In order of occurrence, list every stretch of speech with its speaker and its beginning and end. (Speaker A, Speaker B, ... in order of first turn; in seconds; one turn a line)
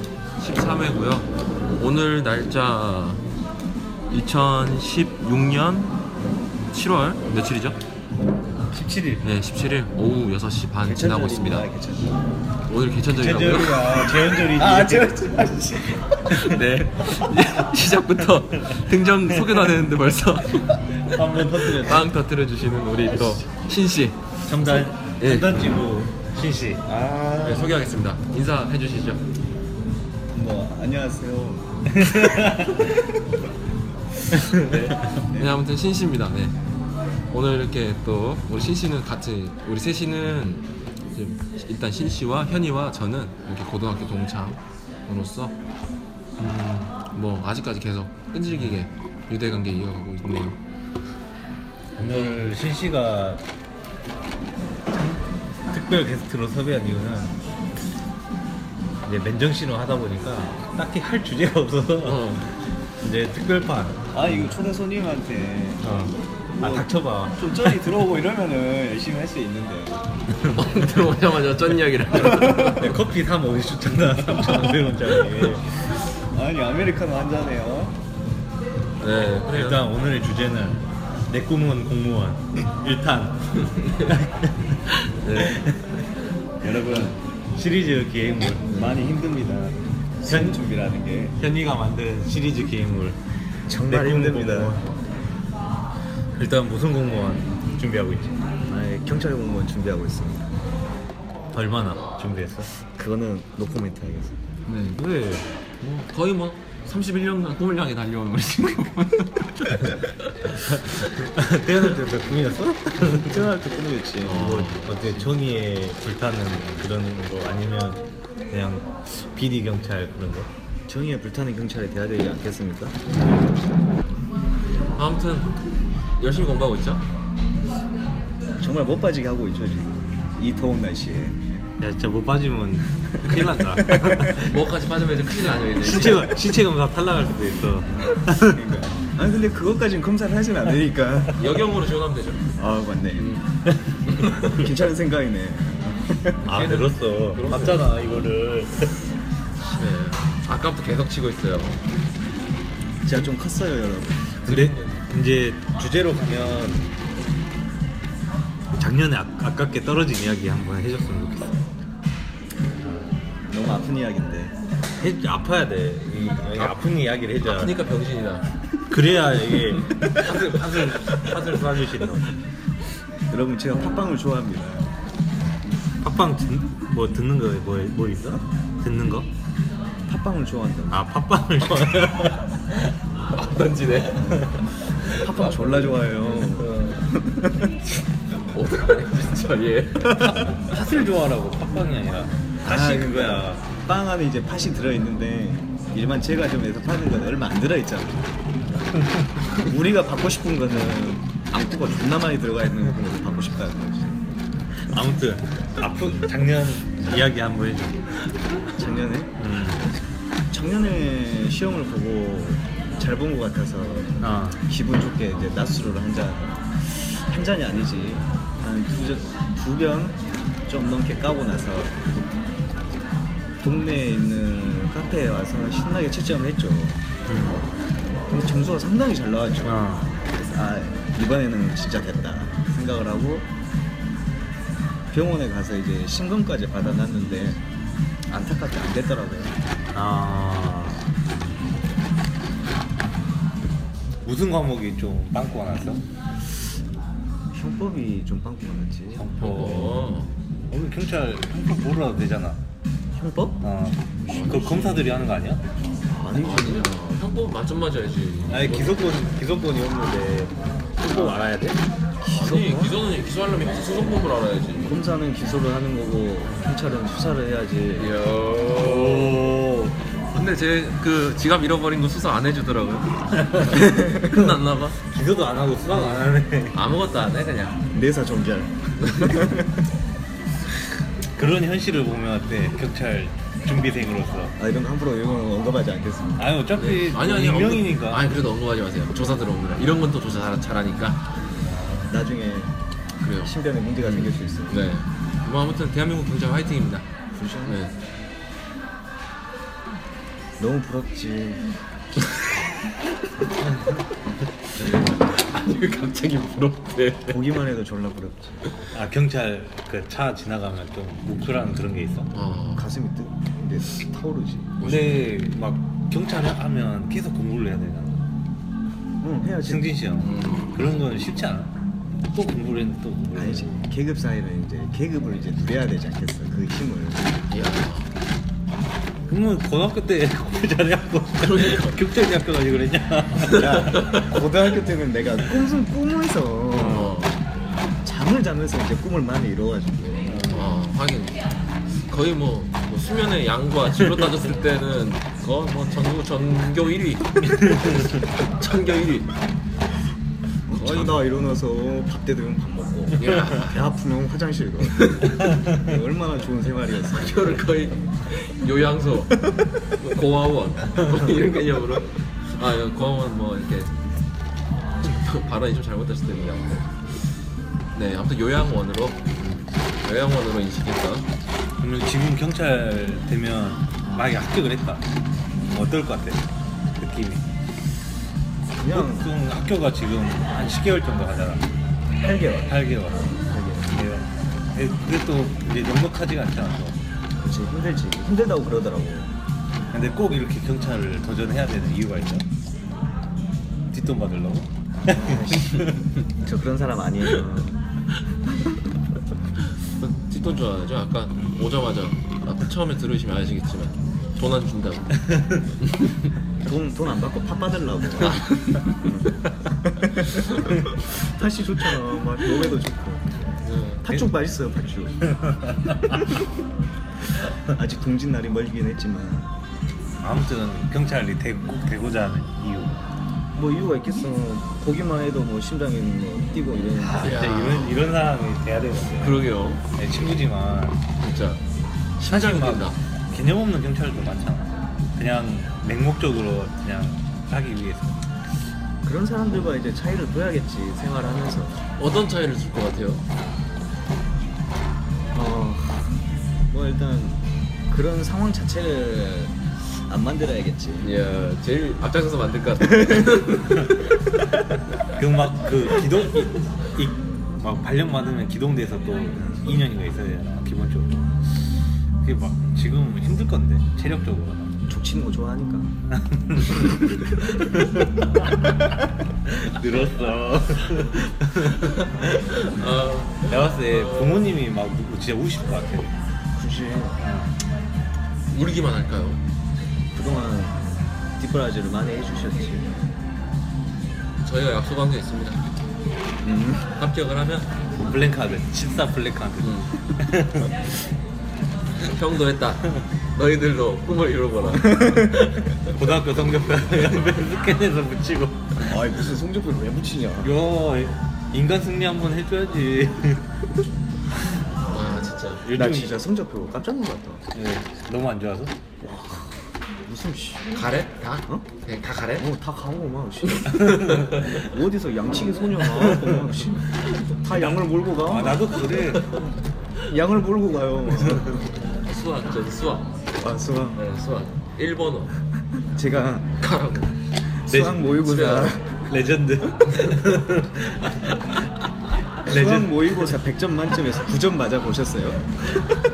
Speaker A: 0.4-3.2
Speaker A: 4.1-6.0
Speaker A: 6.7-7.8
Speaker B: 8.7-9.2
Speaker A: 9.2-11.7
Speaker C: 10.8-12.2
Speaker A: 12.7-13.9
Speaker B: 13.1-15.2
Speaker C: 13.7-16.5
Speaker A: 16.3-24.3
Speaker B: 17.3-18.7
Speaker B: 19.3-19.8
Speaker B: 21.1-22.1
Speaker B: 24.4-27.0
Speaker A: 25.2-25.7
Speaker C: 26.9-27.8
Speaker A: 27.4-29.2
Speaker C: 30.3-32.3
Speaker B: 32.0-32.9
Speaker B: 34.4-35.0
Speaker A: 34.6-36.6
Speaker C: 35.3-35.6
Speaker A: 37.3-45.5
Speaker B: 46.4-47.0
Speaker A: 47.1-50.6
Speaker B: 48.5-48.8
Speaker B: 52.0-53.5
Speaker A: 52.1-52.5
Speaker B: 54.9-57.4
Speaker B: 59.0-64.0
Speaker A: 62.0-62.5
Speaker C: 64.1-66.0
Speaker A: 65.8-66.1
Speaker C: 66.6-70.1
Speaker B: 66.6-68.1
Speaker A: 70.5-73.0
Speaker B: 72.6-76.0
Speaker A: 74.3-75.5
Speaker C: 76.3-78.0
Speaker A: 79.0-79.9
Speaker B: 79.2-83.5
Speaker A: 83.6-84.2
Speaker B: 84.0-84.8
Speaker A: 84.9-85.6
Speaker B: 85.3-86.1
Speaker B: 86.6-90.6
Speaker A: 86.9-87.2
Speaker C: 88.7-89.0
Speaker C: 90.2-91.4
Speaker B: 91.4-93.2
Speaker C: 93.7-94.8
Speaker B: 93.9-94.9
Speaker B: 96.3-98.4
Speaker C: 98.6-100.6
Speaker B: 101.5-102.7
Speaker C: 102.9-104.4
Speaker A: 104.7-105.0
Speaker B: 105.0-105.5
Speaker A: 105.8-110.7
Speaker B: 110.6-113.5
Speaker C: 113.0-114.6
Speaker A: 114.2-115.2
Speaker B: 114.3-120.5
Speaker C: 120.9-123.0
Speaker A: 124.9-125.6
Speaker A: 126.2-127.0
Speaker C: 128.6-131.6
Speaker B: 131.8-134.6
Speaker C: 133.3-134.3
Speaker A: 134.4-136.4
Speaker B: 135.8-138.8
Speaker C: 138.1-141.6
Speaker A: 141.4-142.4
Speaker C: 142.6-143.3
Speaker A: 143.2-144.7
Speaker C: 144.4-146.4
Speaker B: 146.5-148.9
Speaker A: 146.5-148.3
Speaker A: 149.6-151.8
Speaker C: 153.1-154.6
Speaker B: 154.4-156.9
Speaker A: 154.5-155.1
Speaker B: 158.8-161.6
Speaker B: 162.8-163.2
Speaker C: 163.5-164.6
Speaker B: 165.0-167.7
Speaker A: 166.6-168.5
Speaker B: 168.9-172.4
Speaker C: 170.0-170.4
Speaker A: 170.0-170.3
Speaker C: 173.3-174.9
Speaker B: 176.0-179.3
Speaker C: 180.1-181.1
Speaker B: 180.9-182.4
Speaker A: 183.3-187.0
Speaker C: 184.1-187.8
Speaker A: 188.4-190.4
Speaker C: 190.0-190.6
Speaker B: 190.5-193.6
Speaker C: 192.6-198.3
Speaker C: 199.5-204.3
Speaker B: 204.8-208.1
Speaker C: 208.8-209.4
Speaker B: 209.4-209.8
Speaker C: 210.5-222.1
Speaker B: 214.2-214.6
Speaker C: 223.6-227.1
Speaker B: 227.3-227.6
Speaker C: 228.3-233.5
Speaker B: 229.6-230.1
Speaker C: 235.1-237.6
Speaker C: 238.3-239.6
Speaker B: 239.9-241.1
Speaker B: 244.2-246.0
Speaker C: 247.5-249.3
Speaker B: 249.1-252.6
Speaker A: 249.4-250.3
Speaker C: 253.2-253.6
Speaker B: 253.6-255.6
Speaker A: 254.3-255.3
Speaker C: 256.1-257.2
Speaker A: 256.3-259.1
Speaker B: 258.5-261.8
Speaker C: 262.2-263.0
Speaker A: 262.3-265.0
Speaker C: 264.8-268.1
Speaker B: 266.4-266.8
Speaker A: 268.0-269.5
Speaker B: 268.8-270.0
Speaker A: 270.3-275.0
Speaker B: 273.4-273.8
Speaker C: 273.9-274.2
Speaker B: 275.0-276.8
Speaker A: 275.9-277.8
Speaker C: 277.9-279.9
Speaker A: 279.0-279.5
Speaker B: 281.4-284.6
Speaker C: 284.6-286.5
Speaker B: 286.4-288.3
Speaker A: 286.8-291.2
Speaker B: 291.6-292.1
Speaker C: 292.1-292.8
Speaker A: 293.2-297.1
Speaker C: 293.4-294.8
Speaker C: 297.3-297.8
Speaker A: 297.6-297.9
Speaker C: 300.6-301.7
Speaker B: 303.7-304.0
Speaker A: 304.8-307.4
Speaker C: 307.3-308.6
Speaker B: 308.9-312.3
Speaker A: 312.3-312.9
Speaker C: 312.7-315.0
Speaker A: 314.8-315.3
Speaker B: 314.8-318.2
Speaker C: 319.2-319.9
Speaker B: 319.6-321.7
Speaker A: 320.2-320.8
Speaker B: 322.3-323.8
Speaker C: 323.4-327.4
Speaker A: 327.5-328.1
Speaker B: 329.3-334.1
Speaker A: 331.4-332.0
Speaker A: 333.5-334.3
Speaker C: 333.6-337.2
Speaker B: 336.7-337.2
Speaker A: 336.8-337.4
Speaker C: 338.0-340.3
Speaker B: 340.3-340.8
Speaker A: 340.5-341.4
Speaker A: 341.9-349.3
Speaker C: 350.7-357.7
Speaker A: 350.7-351.2
Speaker A: 353.2-353.8
Speaker A: 357.0-364.0
Speaker C: 359.4-359.6
Speaker A: 365.0-367.0
Speaker A: 367.9-371.3
Speaker B: 371.8-375.1
Speaker B: 375.7-376.4
Speaker B: 377.0-377.5
Speaker C: 378.8-379.3
Speaker B: 378.9-381.6
Speaker C: 382.2-384.1
Speaker B: 382.7-387.0
Speaker C: 387.4-389.3
Speaker B: 389.9-392.5
Speaker B: 393.9-396.0
Speaker C: 395.0-397.8
Speaker A: 400.0-405.2
Speaker A: 405.8-406.1
Speaker C: 406.6-413.3
Speaker A: 408.4-408.9
Speaker A: 413.6-414.1
Speaker C: 414.0-415.3
Speaker B: 415.4-416.2
Speaker C: 416.1-416.4
Speaker C: 417.7-419.5
Speaker B: 420.2-423.0
Speaker C: 423.6-427.5
Speaker B: 427.0-431.0
Speaker A: 427.2-428.0
Speaker A: 429.2-429.8
Speaker A: 431.2-431.6
Speaker A: 432.2-433.0
Speaker B: 432.3-438.2
Speaker C: 439.0-441.9
Speaker A: 442.0-443.3
Speaker C: 445.3-451.1
Speaker A: 451.0-454.1
Speaker C: 452.9-453.3
Speaker B: 455.1-461.6
Speaker B: 462.2-464.8
Speaker C: 464.9-465.9
Speaker B: 466.1-467.3
Speaker B: 469.4-472.2
Speaker A: 471.7-474.4
Speaker B: 473.4-476.1
Speaker C: 476.5-477.2
Speaker B: 477.2-477.6
Speaker A: 478.5-479.4
Speaker C: 480.1-482.9
Speaker A: 484.4-485.8
Speaker C: 486.4-486.9
Speaker A: 486.9-487.7
Speaker B: 488.0-490.9
Speaker A: 489.6-489.9
Speaker A: 492.0-495.1
Speaker C: 494.8-495.4
Speaker B: 495.2-499.1
Speaker C: 498.8-500.6
Speaker B: 500.4-503.6
Speaker A: 504.9-505.6
Speaker B: 505.6-506.2
Speaker C: 505.7-507.5
Speaker B: 507.5-508.7
Speaker C: 509.0-510.9
Speaker A: 510.7-512.5
Speaker C: 512.4-519.2
Speaker A: 513.6-514.6
Speaker B: 513.9-514.5
Speaker B: 516.0-516.5
Speaker B: 517.4-519.5
Speaker C: 520.0-521.6
Speaker B: 521.1-521.7
Speaker A: 522.0-523.2
Speaker C: 523.4-524.0
Speaker A: 524.0-525.4
Speaker C: 525.9-526.5
Speaker A: 526.6-527.1
Speaker C: 527.6-529.0
Speaker B: 527.7-533.4
Speaker A: 528.3-528.7
Speaker A: 529.9-530.2
Speaker C: 532.5-535.5